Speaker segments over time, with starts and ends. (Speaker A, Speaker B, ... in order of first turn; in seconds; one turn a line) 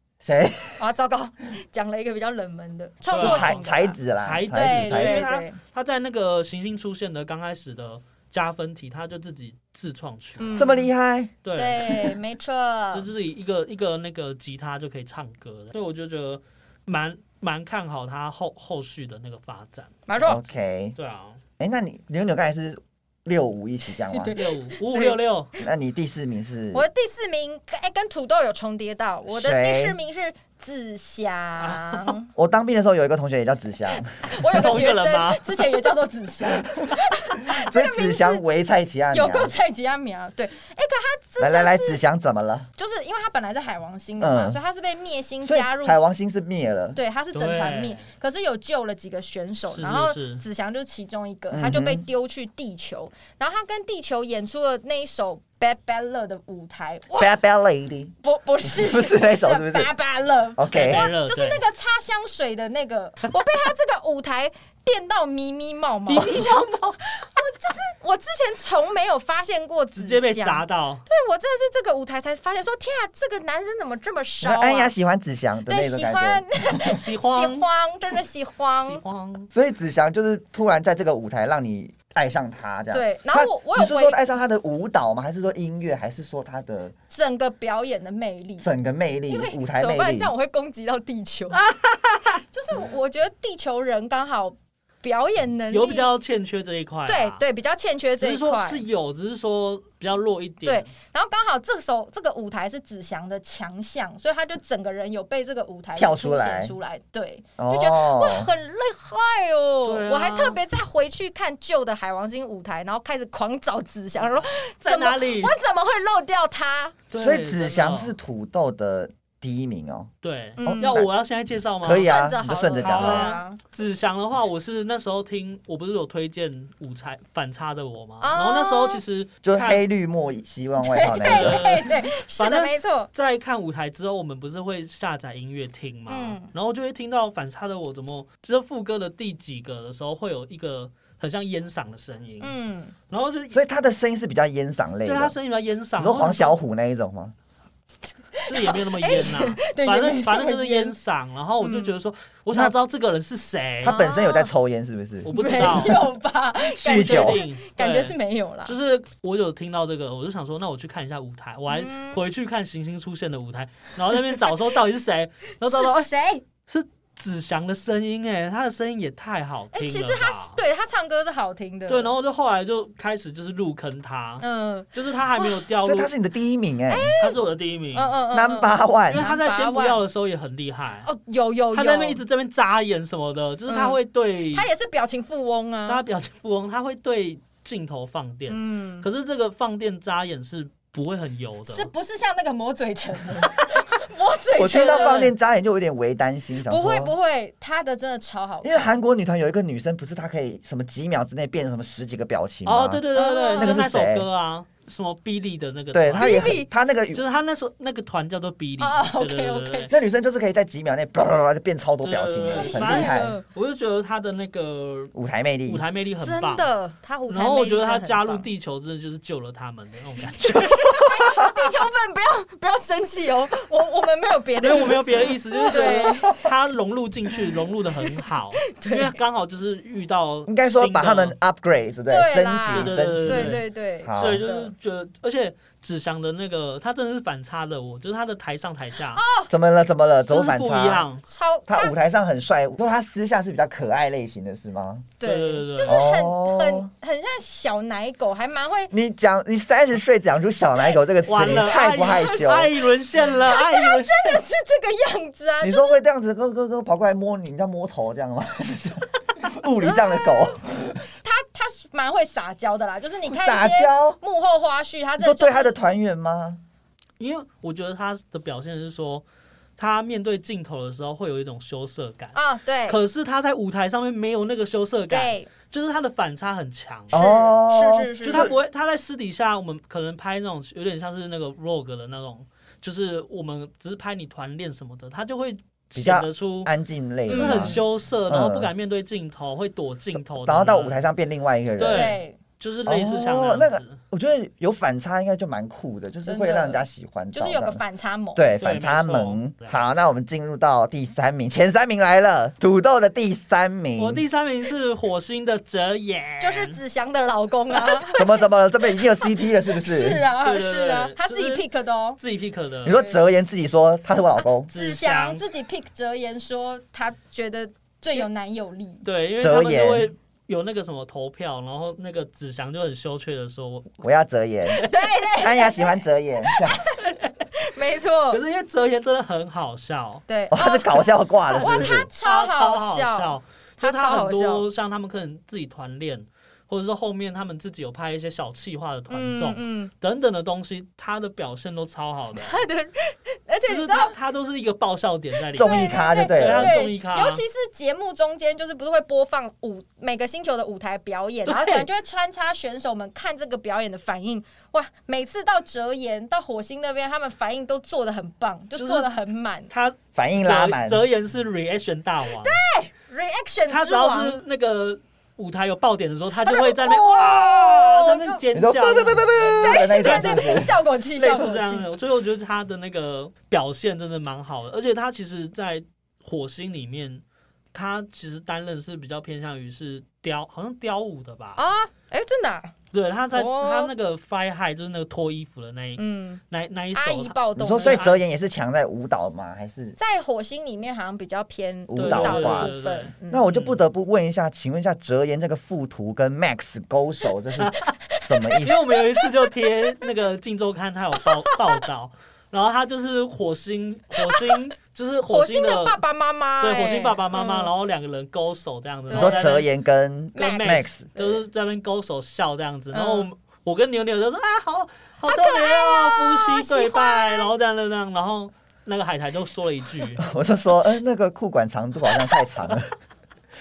Speaker A: 0.2-0.8
Speaker B: 0.8-4.0
Speaker C: 3.1-10.7
Speaker A: 3.2-5.3
Speaker B: 4.5-5.6
Speaker B: 10.4-10.9
Speaker A: 10.6-11.3
Speaker C: 11.4-12.2
Speaker B: 11.5-13.1
Speaker C: 12.9-20.0
Speaker B: 20.1-20.4
Speaker A: 20.2-21.0
Speaker C: 21.0-21.4
Speaker A: 21.6-24.3
Speaker B: 24.1-25.6
Speaker C: 24.3-25.5
Speaker A: 25.6-26.9
Speaker B: 26.7-32.3
Speaker A: 29.3-30.0
Speaker C: 31.6-32.2
Speaker A: 32.4-34.9
Speaker B: 34.0-38.5
Speaker C: 34.4-35.9
Speaker A: 37.5-39.5
Speaker B: 39.1-42.0
Speaker A: 41.4-42.7
Speaker B: 42.8-46.0
Speaker A: 44.2-44.6
Speaker A: 45.4-47.0
Speaker B: 47.0-57.4
Speaker C: 47.3-48.1
Speaker C: 49.7-50.4
Speaker A: 51.5-52.0
Speaker A: 57.2-59.9
Speaker B: 58.2-74.9
Speaker A: 60.6-61.1
Speaker C: 60.7-61.6
Speaker C: 66.1-67.0
Speaker C: 70.0-71.1
Speaker A: 74.4-76.4
Speaker B: 75.7-79.0
Speaker C: 76.8-77.7
Speaker C: 78.8-79.5
Speaker A: 79.5-86.9
Speaker B: 82.9-84.2
Speaker B: 87.1-88.7
Speaker A: 88.6-90.3
Speaker B: 89.3-91.6
Speaker C: 91.5-92.4
Speaker B: 92.5-96.1
Speaker C: 95.7-97.4
Speaker B: 97.1-98.8
Speaker C: 98.2-100.9
Speaker B: 100.6-117.0
Speaker A: 106.0-106.8
Speaker A: 107.6-108.5
Speaker C: 109.8-110.6
Speaker C: 114.8-115.5
Speaker C: 117.1-118.2
Speaker A: 117.2-120.1
Speaker C: 120.2-122.1
Speaker B: 120.6-121.0
Speaker A: 120.6-121.1
Speaker A: 121.8-123.4
Speaker B: 121.8-123.6
Speaker C: 122.8-129.8
Speaker B: 128.2-129.0
Speaker A: 129.4-131.6
Speaker B: 130.8-133.1
Speaker C: 131.0-142.6
Speaker B: 136.1-136.5
Speaker B: 142.4-142.9
Speaker C: 143.1-143.6
Speaker A: 143.5-145.3
Speaker C: 145.1-146.6
Speaker A: 146.0-147.3
Speaker B: 148.3-150.9
Speaker C: 148.5-154.0
Speaker B: 151.6-151.9
Speaker A: 153.8-155.9
Speaker B: 153.8-154.5
Speaker C: 155.2-156.1
Speaker B: 155.3-158.8
Speaker C: 156.8-166.1
Speaker A: 156.8-157.4
Speaker B: 161.7-162.2
Speaker B: 165.6-166.4
Speaker C: 166.7-170.6
Speaker B: 169.7-172.1
Speaker C: 171.9-176.1
Speaker B: 174.4-175.6
Speaker A: 175.8-177.1
Speaker B: 176.9-177.4
Speaker C: 177.2-178.1
Speaker B: 177.9-180.0
Speaker A: 178.3-179.3
Speaker C: 179.1-181.1
Speaker B: 181.0-182.2
Speaker C: 181.7-184.7
Speaker B: 183.7-184.0
Speaker B: 184.5-186.0
Speaker C: 185.9-191.9
Speaker B: 188.5-189.1
Speaker B: 191.7-195.3
Speaker C: 193.3-193.8
Speaker A: 194.6-197.1
Speaker C: 194.8-195.3
Speaker B: 196.7-198.9
Speaker A: 198.6-203.0
Speaker C: 202.7-206.6
Speaker B: 203.1-203.9
Speaker A: 203.6-204.3
Speaker A: 205.9-207.2
Speaker B: 206.2-206.7
Speaker C: 207.1-209.9
Speaker B: 208.8-209.9
Speaker A: 209.9-213.3
Speaker C: 212.0-215.1
Speaker B: 212.5-213.4
Speaker A: 215.1-215.8
Speaker C: 215.7-216.7
Speaker B: 216.2-218.5
Speaker C: 217.3-220.7
Speaker B: 220.4-226.4
Speaker A: 220.5-221.6
Speaker C: 224.6-231.3
Speaker B: 228.1-229.1
Speaker A: 230.5-234.4
Speaker B: 232.1-234.7
Speaker C: 232.7-239.2
Speaker B: 239.1-239.5
Speaker A: 239.5-241.1
Speaker C: 240.3-241.2
Speaker B: 241.2-241.9
Speaker A: 241.7-245.1
Speaker B: 245.2-248.9
Speaker C: 245.2-246.0
Speaker A: 245.8-246.9
Speaker A: 248.9-252.7
Speaker C: 251.3-254.4
Speaker B: 251.9-256.0
Speaker A: 255.6-261.0
Speaker B: 259.8-265.8
Speaker A: 263.3-264.2
Speaker A: 265.2-266.6
Speaker C: 267.2-269.2
Speaker C: 269.8-272.4
Speaker B: 272.3-273.0
Speaker C: 272.9-277.2
Speaker B: 275.1-275.5
Speaker A: 277.1-278.6
Speaker B: 277.1-278.5
Speaker C: 278.2-286.7
Speaker A: 286.0-288.7
Speaker C: 287.3-291.1
Speaker B: 287.3-287.8
Speaker A: 290.2-292.2
Speaker C: 291.8-294.0
Speaker B: 291.9-292.4
Speaker A: 292.9-297.8
Speaker B: 296.2-298.5
Speaker A: 298.4-304.2
Speaker C: 298.6-299.8
Speaker C: 304.0-306.8
Speaker B: 306.4-309.2
Speaker A: 308.1-310.2
Speaker B: 309.7-312.2
Speaker C: 310.4-313.0
Speaker A: 312.9-314.7
Speaker B: 312.9-313.2
Speaker B: 314.7-319.1
Speaker C: 314.7-315.4
Speaker C: 319.0-324.0
Speaker A: 319.4-320.1
Speaker A: 324.0-326.8
Speaker B: 324.7-327.0
Speaker C: 327.0-327.3
Speaker B: 327.6-328.4
Speaker C: 328.3-330.2
Speaker B: 330.3-334.7
Speaker A: 330.5-332.1
Speaker C: 332.2-342.6
Speaker B: 339.1-339.9
Speaker B: 342.4-344.1
Speaker C: 343.7-347.4
Speaker A: 345.5-346.8
Speaker B: 345.6-359.7
Speaker C: 351.5-351.9
Speaker C: 358.8-359.1
Speaker C: 359.7-362.6
Speaker A: 360.2-361.1
Speaker B: 362.4-364.4
Speaker C: 363.7-377.2
Speaker B: 366.4-368.4
Speaker A: 368.5-370.8
Speaker B: 369.4-371.9
Speaker C: 377.7-381.6
Speaker B: 381.6-382.7
Speaker C: 382.9-388.2
Speaker B: 383.3-383.9
Speaker B: 386.0-386.4
Speaker B: 386.9-388.1
Speaker A: 387.6-390.0
Speaker B: 390.0-393.5
Speaker A: 391.9-392.7
Speaker C: 392.0-393.8
Speaker A: 393.3-398.8
Speaker C: 397.6-397.9
Speaker B: 398.1-399.3
Speaker C: 398.6-406.0
Speaker B: 401.2-401.8
Speaker B: 404.2-404.6
Speaker B: 405.2-407.7
Speaker C: 406.6-409.7
Speaker B: 409.1-409.6
Speaker A: 409.1-411.1
Speaker B: 410.4-411.4
Speaker C: 410.4-420.2
Speaker B: 412.9-413.3
Speaker B: 415.2-417.5
Speaker A: 420.2-422.9